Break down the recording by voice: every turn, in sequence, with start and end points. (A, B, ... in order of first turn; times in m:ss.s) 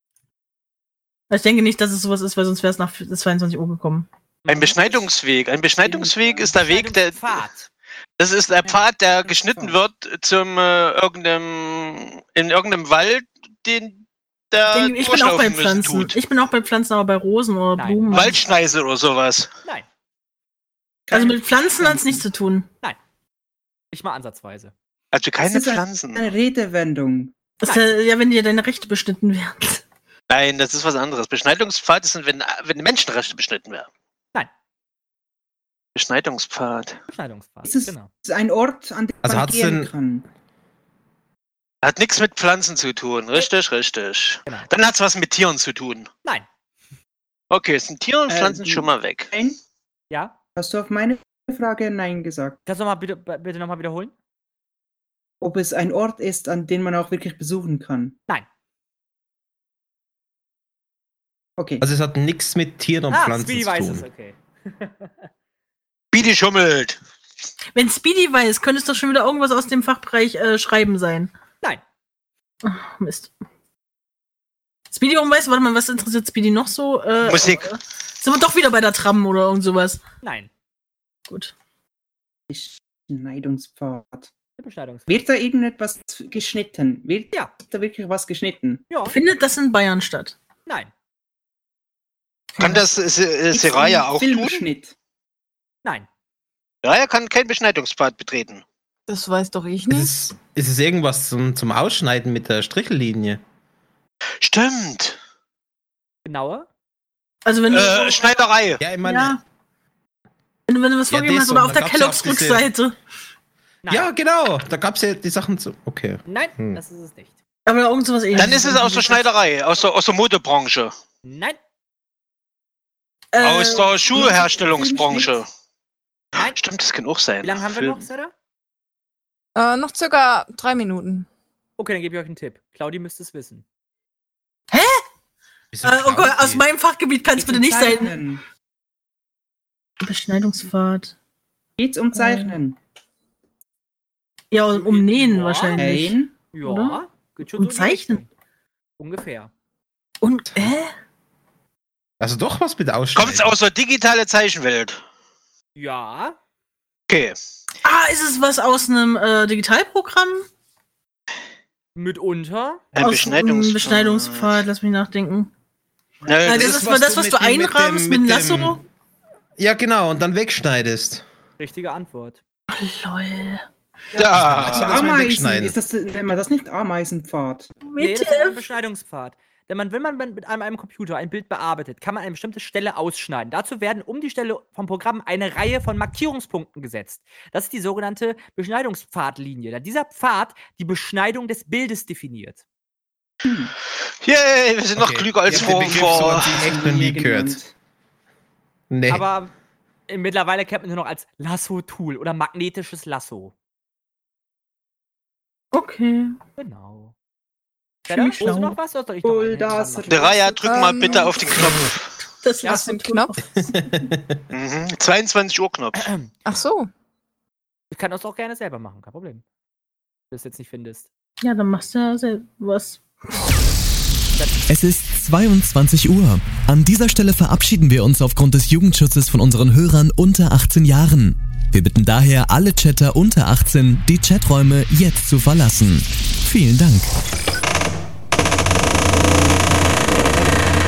0:01.3-0:04.1 A
0:04.4-0:04.8 B
0:04.5-0:07.4 C
0:05.8-0:06.5 D
0:06.5-0:07.7 B
0:08.2-0:16.2 C
0:08.6-0:09.8 D
0:14.7-0:18.4 A
0:17.8-0:18.2 B
0:18.1-0:19.5 C
0:21.1-0:22.2 D
0:21.1-0:22.7 A
0:23.9-0:24.7 B
0:25.1-0:26.3 C
0:25.4-0:27.4 D
0:27.6-0:29.8 A
0:30.3-0:33.9 C
0:36.0-0:37.0 C
0:37.1-0:38.1 B
0:37.6-0:40.3 D
0:39.2-0:39.9 E
0:41.8-0:46.1 C
0:47.5-0:49.3 C
0:48.3-0:49.6 D
0:50.6-0:52.6 D
0:52.7-0:54.1 B
0:55.4-0:58.2 D
1:01.6-1:01.8 D
1:01.8-1:04.1 E
1:03.1-1:05.3 B
1:06.1-1:07.0 C
1:07.8-1:11.3 A
1:12.6-1:13.3 A
1:14.9-1:20.0 A
1:17.2-1:17.7 C
1:20.2-1:20.5 B
1:22.5-1:24.3 D
1:24.6-1:25.2 B
1:25.1-1:28.8 D
1:28.9-1:29.2 B
1:29.1-1:30.4 A
1:32.6-1:32.8 A
1:32.6-1:34.6 C
1:33.5-1:34.9 D
1:36.8-1:38.6 C
1:39.1-1:40.1 F
1:39.9-1:43.4 E
1:44.4-1:45.2 C
1:46.2-1:46.7 B
1:47.4-1:48.3 A
1:47.7-1:48.8 C
1:48.8-1:49.4 E
1:49.0-1:49.4 A
1:50.7-1:53.0 A
1:51.1-1:52.7 E
1:53.8-1:54.1 B
1:53.9-1:56.8 E
1:56.3-1:57.4 B
1:57.7-1:59.2 A
1:58.3-2:00.9 C
2:01.2-2:01.6 B
2:03.3-2:04.4 A
2:03.4-2:05.5 C
2:04.1-2:05.4 D
2:06.5-2:08.0 C
2:07.4-2:08.3 B
2:09.6-2:11.3 F
2:11.8-2:13.6 B
2:14.7-2:15.0 A
2:15.7-2:16.6 E
2:15.8-2:18.2 A
2:17.4-2:18.4 D
2:20.0-2:21.1 A
2:21.8-2:22.8 D
2:22.2-2:22.6 A
2:24.5-2:27.0 A
2:24.7-2:25.9 B
2:25.8-2:26.4 D
2:26.5-2:28.3 B
2:27.5-2:28.2 A
2:29.0-2:29.5 B
2:30.2-2:30.9 A
2:32.2-2:33.5 E
2:33.2-2:35.0 C
2:35.8-2:36.4 B
2:37.1-2:37.4 C
2:37.8-2:40.5 A
2:42.0-2:42.8 B
2:42.9-2:44.6 C
2:43.0-2:45.5 A
2:46.3-2:46.8 C
2:46.4-2:48.8 A
2:46.5-2:48.8 E
2:49.6-2:51.2 E
2:51.6-2:52.4 B
2:52.7-2:53.6 A
2:54.2-2:55.1 C
2:54.2-2:55.8 E
2:54.6-2:57.8 D
2:57.8-2:58.6 A
2:58.0-3:12.6 B
3:13.4-3:13.7 D
3:14.2-3:16.5 C
3:15.0-3:17.6 E
3:15.5-3:17.7 D
3:18.9-3:19.2 E
3:19.1-3:19.5 B
3:20.1-3:23.5 B
3:25.7-3:26.4 A
3:26.6-3:27.1 B
3:28.1-3:28.8 A
3:28.1-3:30.4 B
3:29.2-3:31.4 D
3:30.1-3:32.1 C
3:30.7-3:31.5 F
3:32.4-3:33.6 A
3:32.7-3:33.3 F
3:33.6-3:34.4 E
3:34.5-3:36.1 C
3:36.0-3:36.3 B
3:36.4-3:36.9 F
3:37.9-3:39.4 B
3:40.3-3:41.1 B
3:41.4-3:43.5 A
3:44.7-3:57.1 G